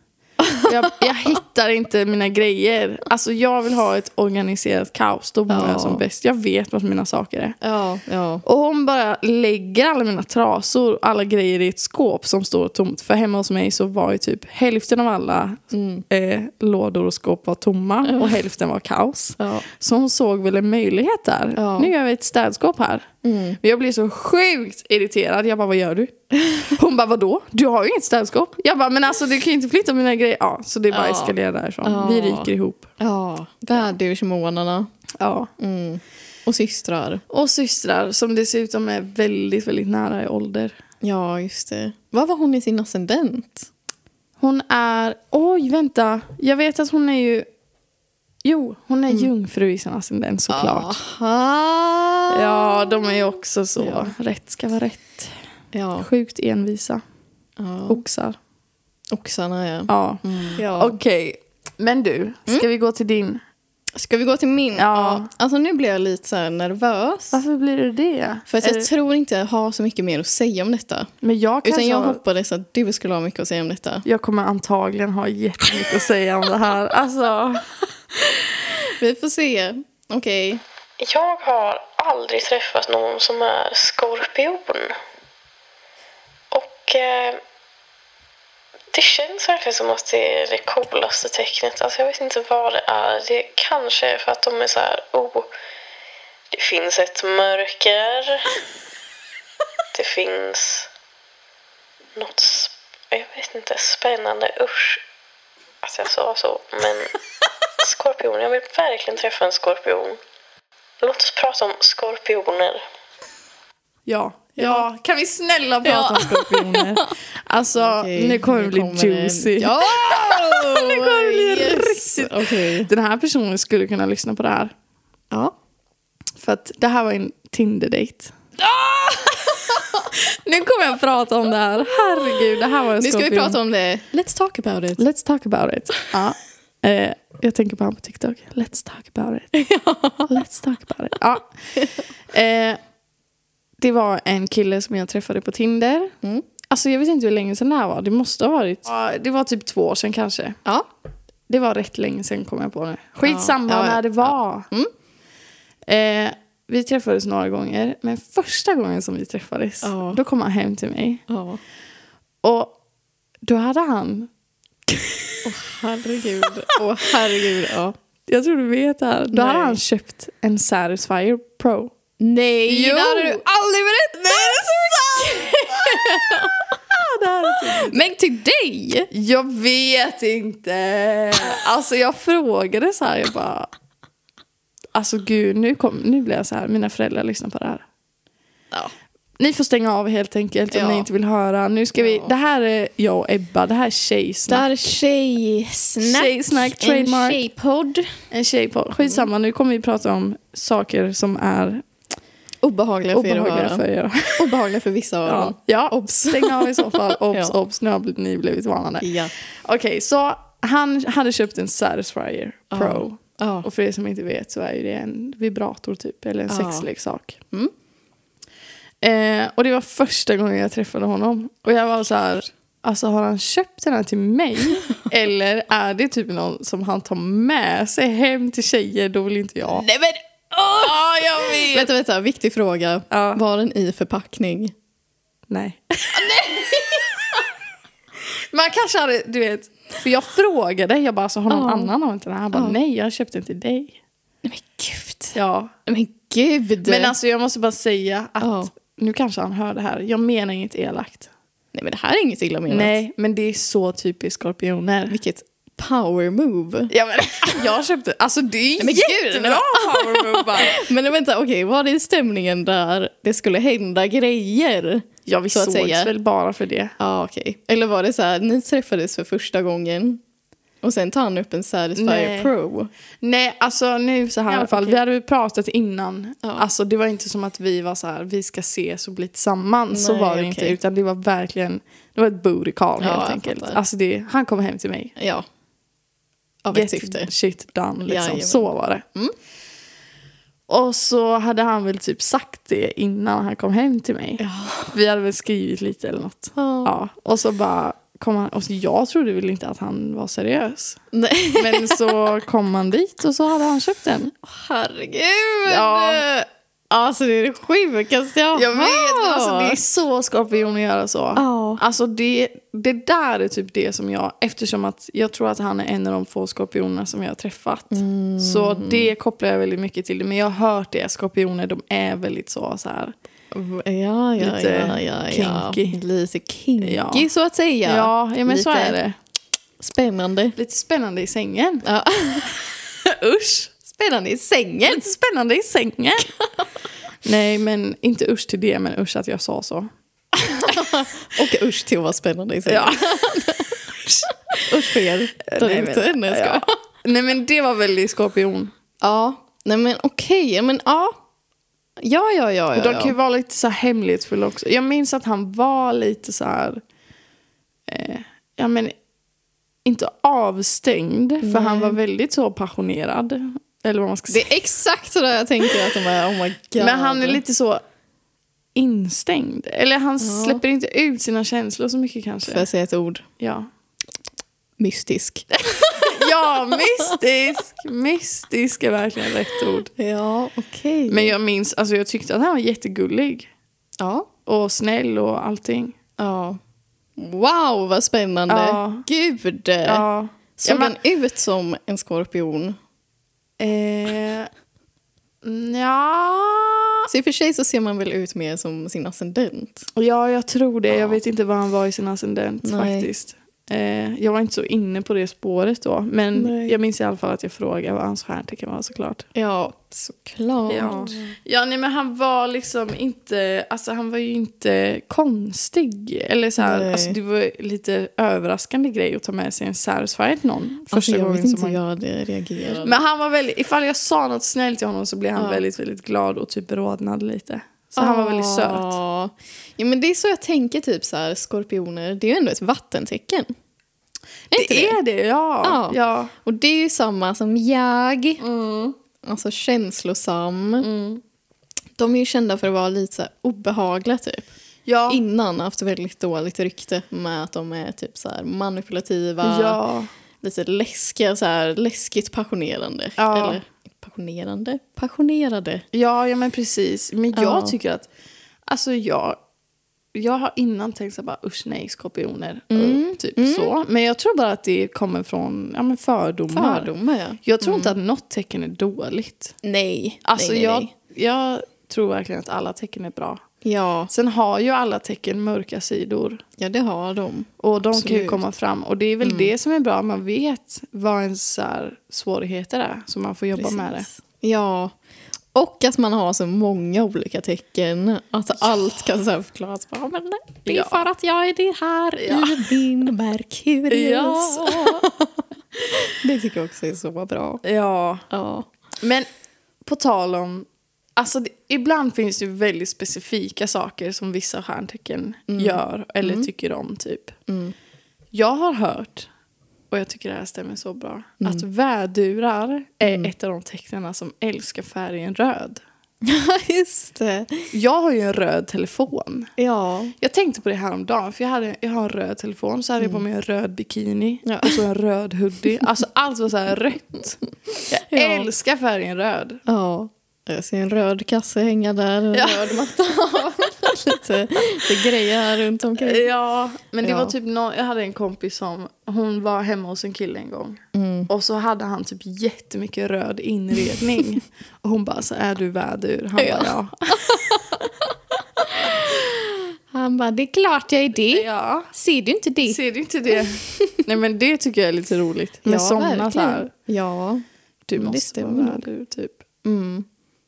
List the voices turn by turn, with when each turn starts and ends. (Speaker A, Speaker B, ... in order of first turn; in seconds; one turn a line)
Speaker A: 0.6-7.6
Speaker B: 5.5-6.0
Speaker B: 7.6-8.4
Speaker A: 8.4-32.9
Speaker B: 15.7-16.0
Speaker B: 18.1-18.3
Speaker B: 19.4-19.6
Speaker B: 21.6-21.9
Speaker B: 23.2-23.6
Speaker B: 30.9-34.9
Speaker A: 35.2-35.5
Speaker B: 35.6-37.2
Speaker A: 37.3-40.8
Speaker B: 41.0-43.7
Speaker A: 44.4-47.5
Speaker A: 48.4-51.0
Speaker B: 50.5-53.1
Speaker A: 52.3-55.3
Speaker B: 53.8-54.1
Speaker B: 55.7-56.1
Speaker A: 56.0-57.0
Speaker B: 57.6-58.0
Speaker A: 57.9-58.4
Speaker B: 59.1-61.0
Speaker A: 59.9-63.4
Speaker B: 63.9-67.4
Speaker A: 64.8-65.3
Speaker A: 67.3-68.9
Speaker B: 68.5-71.1
Speaker A: 71.2-72.2
Speaker B: 71.6-74.0
Speaker A: 74.0-77.7
Speaker B: 78.6-80.6
Speaker C: 81.0-84.9
Speaker C: 86.5-87.4
Speaker C: 88.9-95.5
Speaker C: 96.5-98.6
Speaker C: 99.9-100.9
Speaker C: 102.2-105.0
Speaker C: 105.8-107.1
Speaker C: 107.8-110.2
Speaker C: 111.0-112.8
Speaker A: 114.0-124.7
Speaker B: 114.6-114.8
Speaker B: 115.8-117.0
Speaker B: 117.7-122.9
Speaker A: 126.4-128.3
Speaker B: 128.6-130.0
Speaker A: 129.3-133.6
Speaker B: 133.0-135.0
Speaker A: 135.0-139.5
Speaker B: 139.5-140.3
Speaker A: 140.3-141.6
Speaker A: 142.3-142.8
Speaker A: 143.8-146.1
Speaker A: 146.7-150.6
Speaker A: 151.5-154.7
Speaker B: 153.2-154.9
Speaker A: 155.9-161.2
Speaker B: 159.8-160.2
Speaker B: 161.3-161.6
Speaker A: 162.4-162.8
Speaker A: 163.4-164.3
Speaker A: 164.9-165.4
Speaker B: 165.4-167.9
Speaker A: 168.3-171.9
Speaker B: 169.3-169.8
Speaker B: 172.2-176.6
Speaker A: 172.7-173.4
Speaker A: 174.2-178.0
Speaker B: 177.8-179.1
Speaker A: 179.1-183.7
Speaker A: 184.9-187.8
Speaker A: 189.4-194.7
Speaker B: 190.7-191.1
Speaker B: 191.9-192.3
Speaker B: 194.5-198.2
Speaker A: 196.0-197.4
Speaker A: 198.3-201.8
Speaker B: 202.6-203.8
Speaker A: 203.1-204.6
Speaker B: 204.4-207.5
Speaker A: 205.2-209.1
Speaker B: 209.0-209.3
Speaker A: 209.6-217.4
Speaker B: 212.7-213.7
Speaker B: 216.5-216.9
Speaker A: 219.0-229.9
Speaker B: 229.7-231.0
Speaker A: 230.6-231.9
Speaker B: 231.6-234.7
Speaker A: 233.1-233.4
Speaker A: 235.5-237.4
Speaker B: 236.1-237.2
Speaker A: 238.5-244.0
Speaker B: 241.5-241.9
Speaker B: 242.5-242.8
Speaker B: 244.4-247.1
Speaker A: 245.3-245.7
Speaker A: 246.8-251.3
Speaker B: 248.4-248.7
Speaker B: 251.7-253.0
Speaker A: 252.7-255.2
Speaker B: 255.1-256.9
Speaker A: 256.9-260.9
Speaker B: 258.8-266.1
Speaker A: 265.2-266.9
Speaker B: 267.0-270.2
Speaker B: 270.8-272.9
Speaker A: 271.9-272.5
Speaker A: 273.2-285.1
Speaker B: 274.5-275.0
Speaker B: 279.9-280.8
Speaker B: 283.0-283.8
Speaker B: 285.2-285.4
Speaker B: 286.6-287.3
Speaker A: 286.7-289.0
Speaker B: 288.1-289.3
Speaker A: 290.7-301.0
Speaker B: 294.4-294.9
Speaker B: 296.6-296.9
Speaker B: 301.1-302.1
Speaker A: 301.6-304.3
Speaker B: 304.4-309.8
Speaker A: 305.6-306.2
Speaker A: 308.5-323.1
Speaker B: 311.3-311.8
Speaker B: 317.9-319.1
Speaker B: 323.5-329.0
Speaker A: 324.4-326.0
Speaker A: 326.8-327.2
Speaker A: 327.8-329.1
Speaker B: 329.8-330.6
Speaker A: 330.6-331.9
Speaker B: 331.8-332.5
Speaker A: 333.0-333.7
Speaker B: 333.9-335.1
Speaker A: 334.9-336.4
Speaker A: 337.2-339.9
Speaker B: 340.4-343.8
Speaker A: 342.7-343.4
Speaker A: 344.0-344.7
Speaker B: 344.3-346.7
Speaker A: 345.4-348.7
Speaker B: 349.0-351.2
Speaker B: 352.0-353.1
Speaker A: 352.7-356.8
Speaker A: 357.9-358.9
Speaker A: 359.8-364.5
Speaker B: 361.4-362.0
Speaker B: 364.3-367.4
Speaker A: 366.8-367.8
Speaker A: 368.7-372.7
Speaker B: 370.2-370.6
Speaker B: 372.4-373.2
Speaker A: 373.4-373.7
Speaker B: 374.8-376.1
Speaker A: 375.5-379.9
Speaker B: 380.0-381.3
Speaker A: 381.1-383.5
Speaker B: 384.0-384.3
Speaker A: 384.4-386.0
Speaker B: 386.2-386.6
Speaker B: 387.2-390.0
Speaker A: 388.5-389.1
Speaker A: 389.8-390.9
Speaker B: 390.6-392.8
Speaker A: 393.6-394.5
Speaker A: 395.4-397.1
Speaker B: 397.1-399.9
Speaker A: 399.9-409.3
Speaker B: 400.9-401.2
Speaker B: 402.6-403.1
Speaker B: 406.3-406.8
Speaker B: 409.3-411.3
Speaker A: 410.7-421.8
Speaker B: 416.6-417.2
Speaker B: 420.9-423.0
Speaker A: 422.8-429.0
Speaker B: 425.4-425.6
Speaker B: 428.0-433.5
Speaker B: 434.5-435.0
Speaker A: 434.5-436.3
Speaker B: 435.6-438.4
Speaker A: 438.4-438.9
Speaker B: 439.2-440.9
Speaker A: 440.8-441.2
Speaker B: 442.0-444.5
Speaker A: 444.9-445.2
Speaker B: 445.1-449.8
Speaker A: 449.4-450.1
Speaker B: 450.4-455.8
Speaker A: 453.2-453.6
Speaker A: 455.9-458.1
Speaker B: 457.3-457.7
Speaker A: 458.7-459.4
Speaker A: 460.1-466.9
Speaker B: 462.7-463.7
Speaker B: 466.5-467.9
Speaker A: 467.4-469.6
Speaker B: 469.6-470.9
Speaker A: 470.2-473.4
Speaker B: 473.6-474.1
Speaker A: 474.1-476.4
Speaker B: 476.6-478.4
Speaker A: 477.6-484.1
Speaker B: 479.2-479.5
Speaker B: 483.6-484.9
Speaker B: 485.5-497.6
Speaker A: 490.7-491.0
Speaker A: 492.2-492.8
Speaker A: 493.9-495.1
Speaker A: 497.6-498.2
Speaker B: 498.3-498.7
Speaker A: 499.0-499.2
Speaker A: 499.8-500.6
Speaker A: 501.2-507.4
Speaker B: 505.5-506.5
Speaker B: 507.5-507.7
Speaker A: 508.3-509.3
Speaker A: 509.9-515.8
Speaker B: 513.0-513.3
Speaker B: 516.2-517.7
Speaker A: 517.7-519.5
Speaker B: 519.6-520.1
Speaker A: 520.2-529.6
Speaker B: 524.4-524.8
Speaker B: 528.1-528.5
Speaker B: 529.7-536.3
Speaker A: 532.3-532.7
Speaker A: 536.0-547.5
Speaker B: 537.0-537.3
Speaker B: 540.9-541.3
Speaker B: 546.4-552.8
Speaker A: 551.3-551.9
Speaker A: 552.6-556.7
Speaker B: 553.3-554.0
Speaker B: 555.6-557.4
Speaker A: 557.9-559.4
Speaker B: 557.9-558.8
Speaker B: 559.6-560.0